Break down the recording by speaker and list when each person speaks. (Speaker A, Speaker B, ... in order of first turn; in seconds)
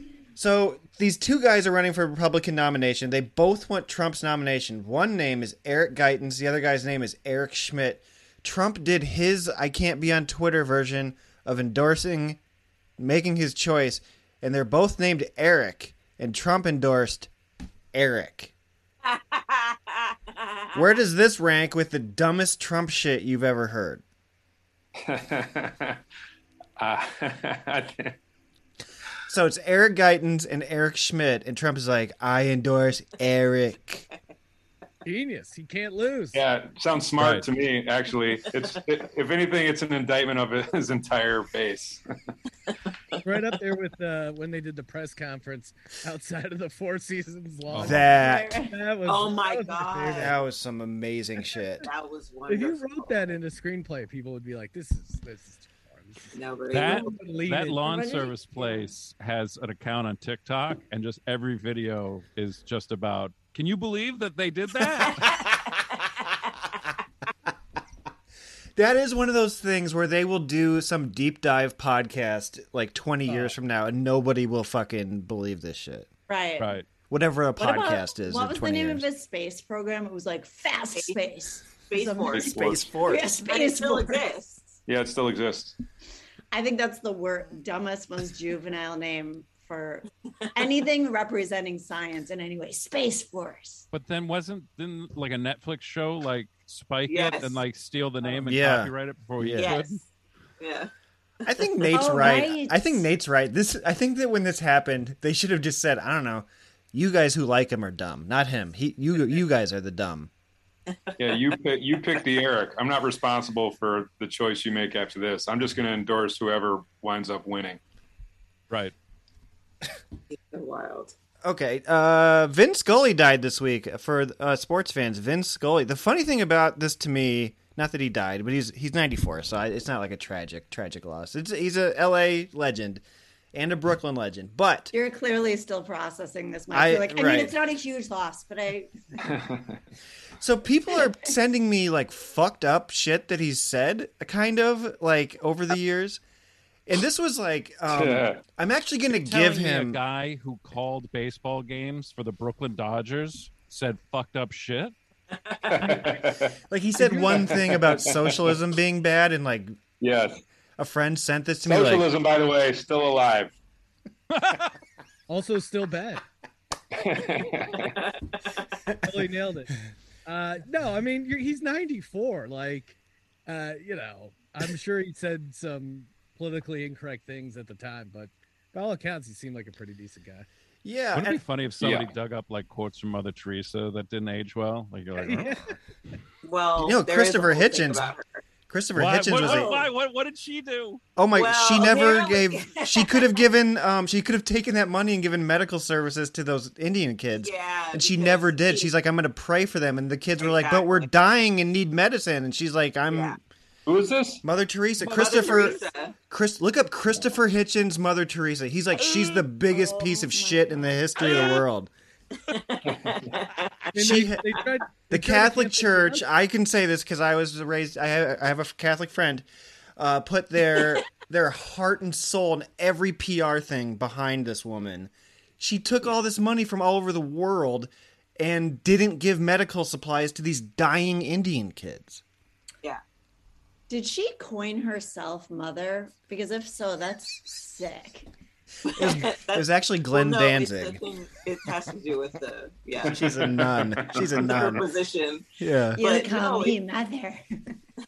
Speaker A: 0.4-12.4, 13.0-17.3, 17.9-18.5, 20.7-24.0, 29.3-34.1, 47.8-48.6, 50.1-51.9, 68.8-76.1, 77.1-79.1, 82.5-83.3, 98.5-99.8, 101.5-110.3, 121.4-133.0, 133.5-134.9, 136.7-137.6, 140.4-146.2, 146.9-150.0, 156.7-159.8, 160.8-162.1, 180.8-181.4, 186.8-188.1, 188.7-189.8, 191.2-203.4, 204.4-211.9, 213.9-214.4, 215.1-219.5, 220.0-232.2, 238.9-241.0, 243.1-244.9, 245.6-246.0
Speaker B: 19.0-20.8, 49.0-50.3, 51.8-53.3, 56.3-57.1, 81.9-82.5, 83.3-84.8, 97.1-97.6, 99.6-100.0, 100.6-100.9, 120.3-121.1, 186.4-188.4, 189.3-189.8, 191.3-193.3, 197.4-198.9, 200.4-201.1, 203.1-203.4, 205.0-206.2, 211.2-211.6, 212.5-213.9, 238.9-243.3, 244.3-245.5, 246.0-246.8
Speaker C: 25.0-26.0, 26.8-28.2, 36.3-42.0, 82.3-82.8, 84.9-85.8, 111.2-117.8, 139.3-139.6, 147.9-148.4, 155.7-156.6, 157.5-158.6, 160.0-160.4, 161.7-163.6, 166.9-168.0, 181.8-182.1, 203.9-204.4, 243.2-244.8
Speaker D: 35.0-36.4, 43.2-50.3, 52.5-58.0, 73.3-73.5, 157.0-157.5, 165.3-166.2, 169.0-169.7, 170.3-180.5, 185.2-185.8, 213.9-216.2
Speaker E: 37.2-37.5, 47.7-48.0, 56.7-65.3, 76.6-76.9, 93.9-100.0, 149.2-154.9, 164.3-164.7, 181.1-185.6, 189.0-191.0
Speaker F: 48.0-48.8, 57.9-58.9, 76.3-76.7, 77.6-84.2, 86.5-93.9, 101.9-103.1, 134.9-138.9, 209.7-210.8, 233.9-238.3, 246.0-247.4